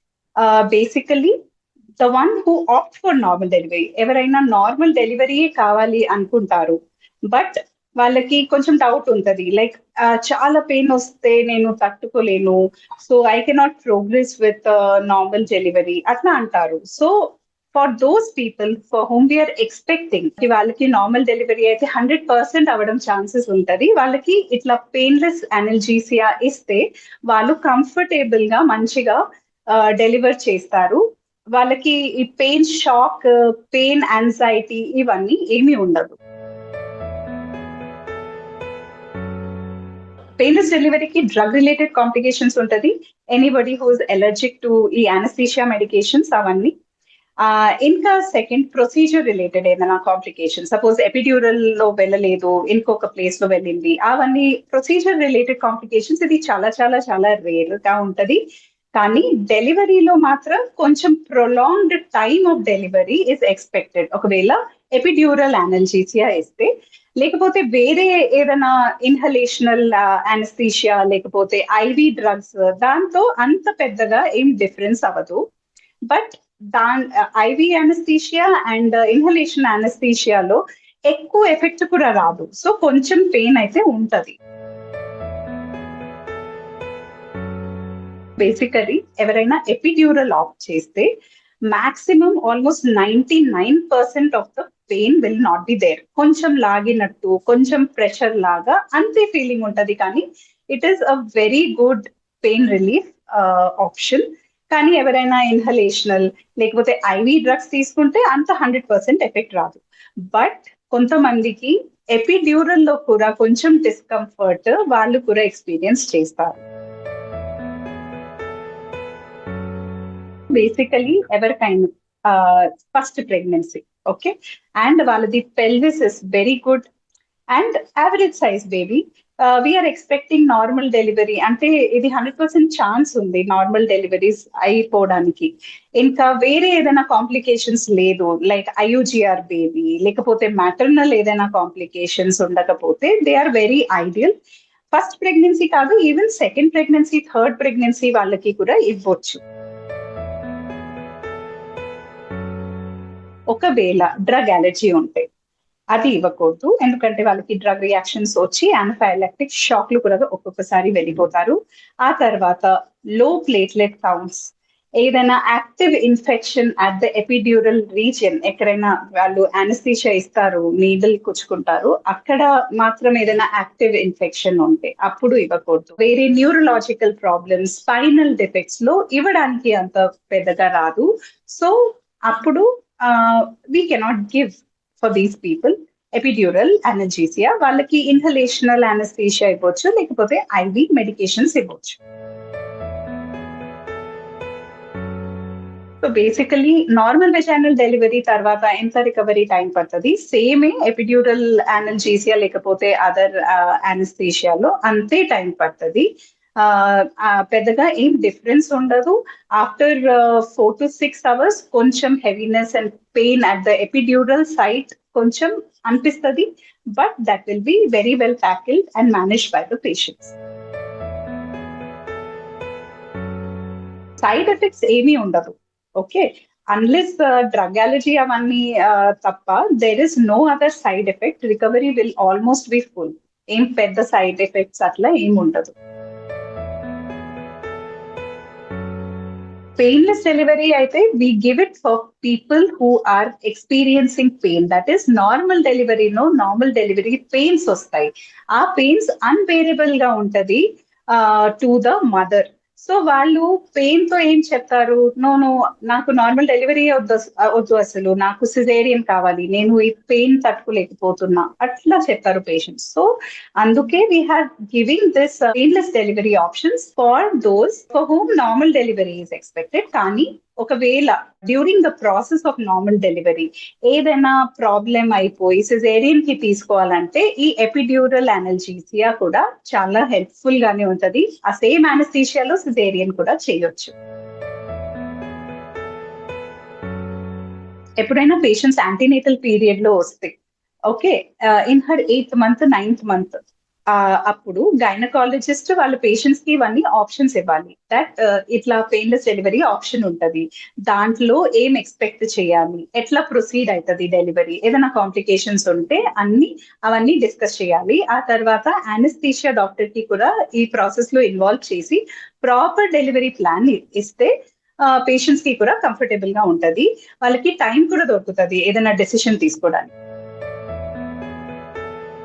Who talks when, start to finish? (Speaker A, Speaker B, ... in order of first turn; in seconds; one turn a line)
Speaker A: 0.4-1.3
Speaker A: 2.0-6.8
Speaker A: 7.3-31.0
Speaker A: 31.5-36.2
Speaker A: 40.4-46.7
Speaker A: 47.4-58.4
Speaker A: 59.0-75.4
Speaker A: 76.1-84.3
Speaker A: 88.4-91.1
Speaker A: 91.7-116.6
Speaker A: 120.5-126.9
Speaker A: 127.5-144.3
Speaker A: 144.9-149.4
Speaker A: 153.5-155.2
Speaker A: 155.9-192.0
Speaker A: 196.0-206.1
Speaker A: 206.6-220.3
Speaker A: 224.2-235.7
Speaker A: 239.8-283.9
Speaker A: 288.0-290.3
Speaker A: 290.9-293.4
Speaker A: 293.9-314.3
Speaker A: 314.9-319.9